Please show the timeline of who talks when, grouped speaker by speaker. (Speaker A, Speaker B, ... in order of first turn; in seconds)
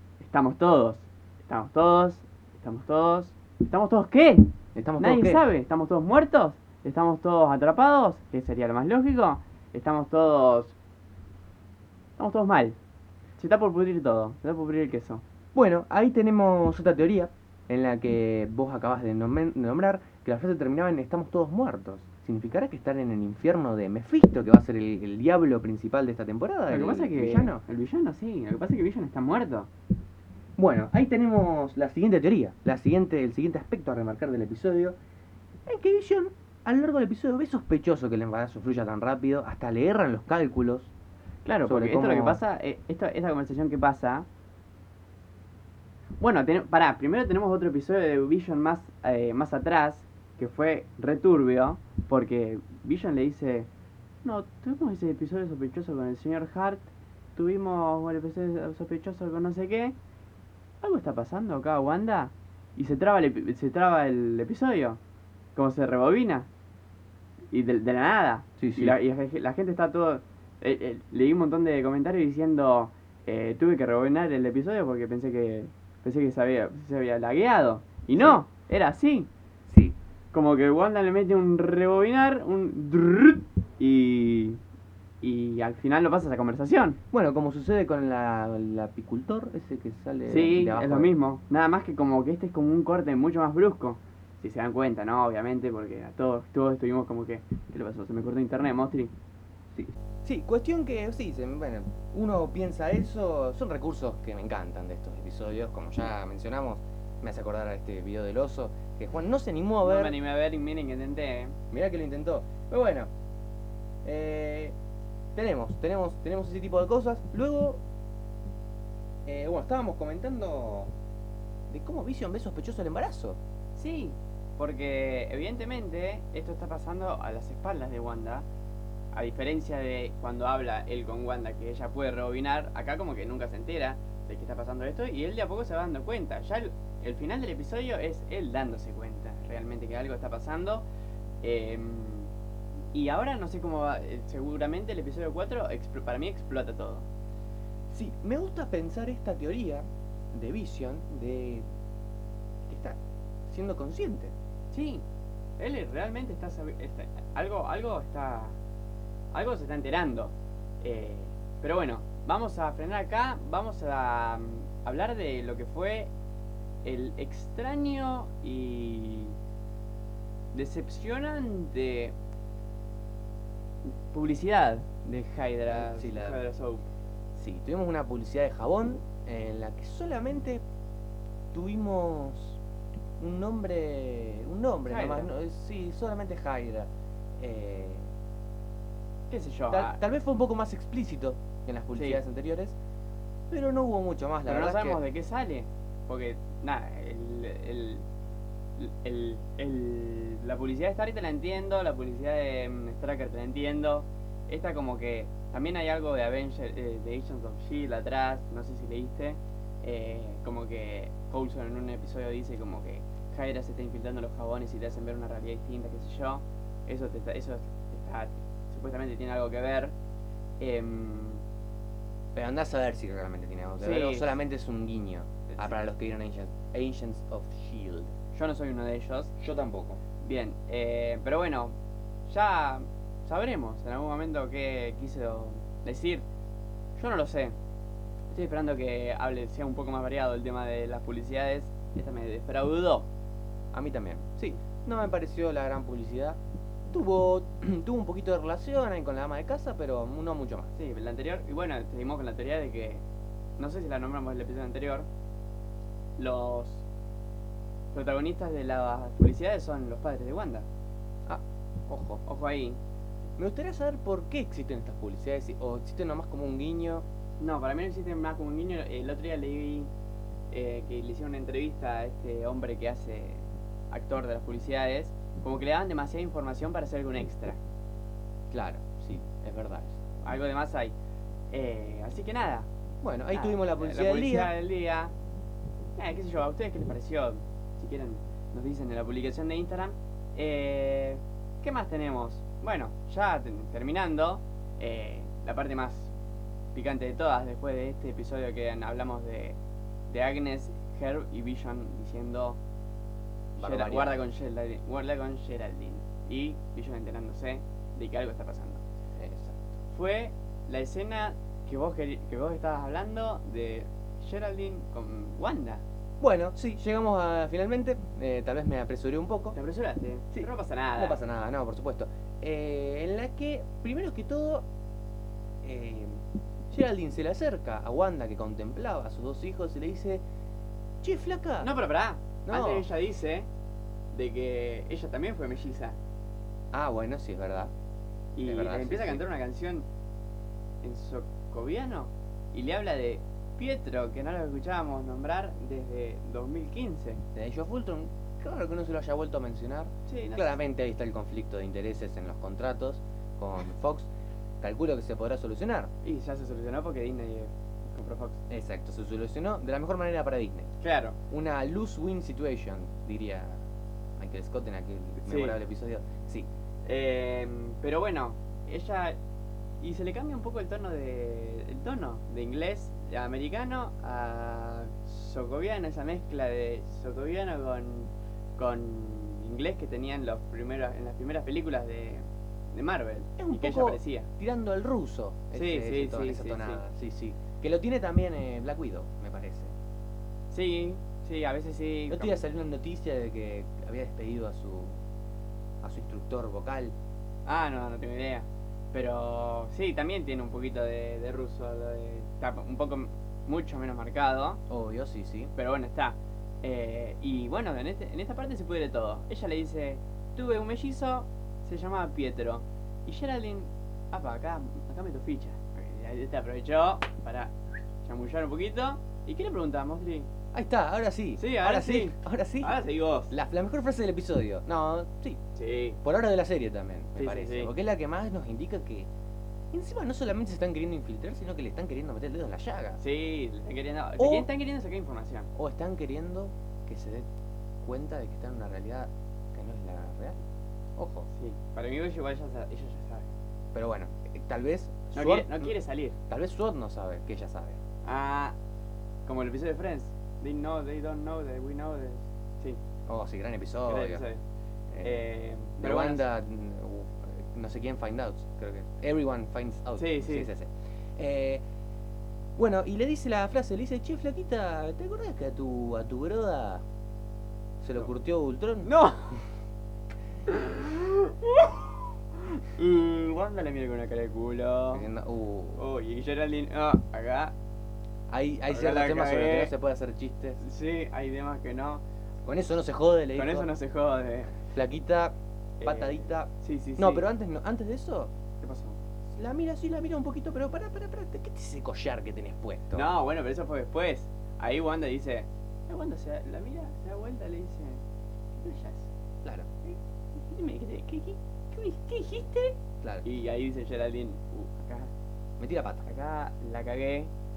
Speaker A: 0.2-10.7, 12.2-12.8, 13.4-15.2, 26.7-29.7, 41.4-44.2, 46.2-53.7, 54.2-60.0, 60.8-65.0, 65.5-66.5, 67.5-79.3, 80.3-84.6, 85.2-87.0, 90.3-99.1, 109.8-111.6, 123.7-128.4, 129.1-140.8, 141.4-142.3, 142.9-147.1, 154.7-155.0, 155.6-158.6, 159.3-166.1, 166.8-169.4, 170.5-172.1, 173.9-176.9, 184.9-185.3, 189.3-190.0, 191.9-192.2, 194.4-198.0, 198.8-219.9, 220.6-221.4, 223.8-224.4, 225.5-225.8, 228.3-229.3, 230.2-231.8, 232.3-236.2, 237.0-237.5, 238.3-243.1, 250.8-253.0, 253.6-255.1, 256.2-256.8, 257.9-260.6, 262.2-262.8, 267.4-269.9, 270.5-277.6, 280.2-280.9, 281.5-282.7, 283.3-285.1, 286.0-296.1, 296.7-299.6, 300.1-302.6, 303.6-308.8, 309.9-315.8, 319.5-321.2, 331.6-333.5, 334.1-336.0, 338.4-339.9, 340.8-347.2, 350.1-350.6, 356.0-358.4, 360.8-361.2, 365.2-365.6, 366.9-369.2, 369.8-384.3, 385.5-386.8, 390.5-392.4, 397.4-404.6, 405.6-420.3, 421.4-423.3, 425.6-426.0, 427.2-427.7, 433.0-435.5, 441.3-443.3, 445.1-446.1, 448.1-448.6, 449.3-452.8, 453.9-454.4, 455.0-456.3, 460.0-460.5, 468.8-469.4, 470.5-475.1, 475.8-477.5, 478.7-479.7, 480.6-482.0, 483.3-484.6, 485.8-487.2, 488.6-489.0, 492.9-498.0, 498.6-499.1, 499.8-505.1, 506.1-507.3
Speaker B: 4.7-5.4, 15.5-27.6, 30.6-35.0, 35.6-40.9, 41.6-42.4, 68.6-69.0, 78.1-78.4, 79.7-80.0, 87.1-91.1, 99.7-110.2, 111.7-113.1, 114.0-114.8, 115.3-117.8, 119.2-120.9, 121.7-123.4, 147.9-151.6, 152.7-154.3, 175.7-176.4, 177.3-180.6, 181.5-182.6, 183.2-188.1, 189.7-192.8, 193.5-195.0, 222.3-228.1, 229.4-230.0, 243.7-246.4, 246.9-250.7, 261.2-262.2, 263.4-267.0, 278.5-280.0, 283.0-284.5, 303.6-304.2, 309.2-309.8, 316.2-319.6, 320.3-324.7, 325.6-330.2, 331.0-331.7, 332.4-332.9, 336.7-337.7, 338.4-339.2, 347.4-354.1, 354.6-355.9, 358.5-360.7, 361.3-363.6, 364.2-366.5, 383.4-389.7, 392.1-395.0, 395.8-396.9, 404.7-405.5, 420.5-425.4, 426.0-429.1, 429.7-433.0, 434.2-434.5, 435.6-437.3, 437.8-440.4, 440.9-441.3, 443.7-445.7, 446.3-447.8, 453.1-454.2, 454.9-455.2, 455.8-461.6, 462.6-466.8, 467.8-468.9, 474.9-475.8, 478.3-480.6, 482.4-483.7, 484.6-488.3, 489.3-493.1, 499.4-499.7, 505.6-506.1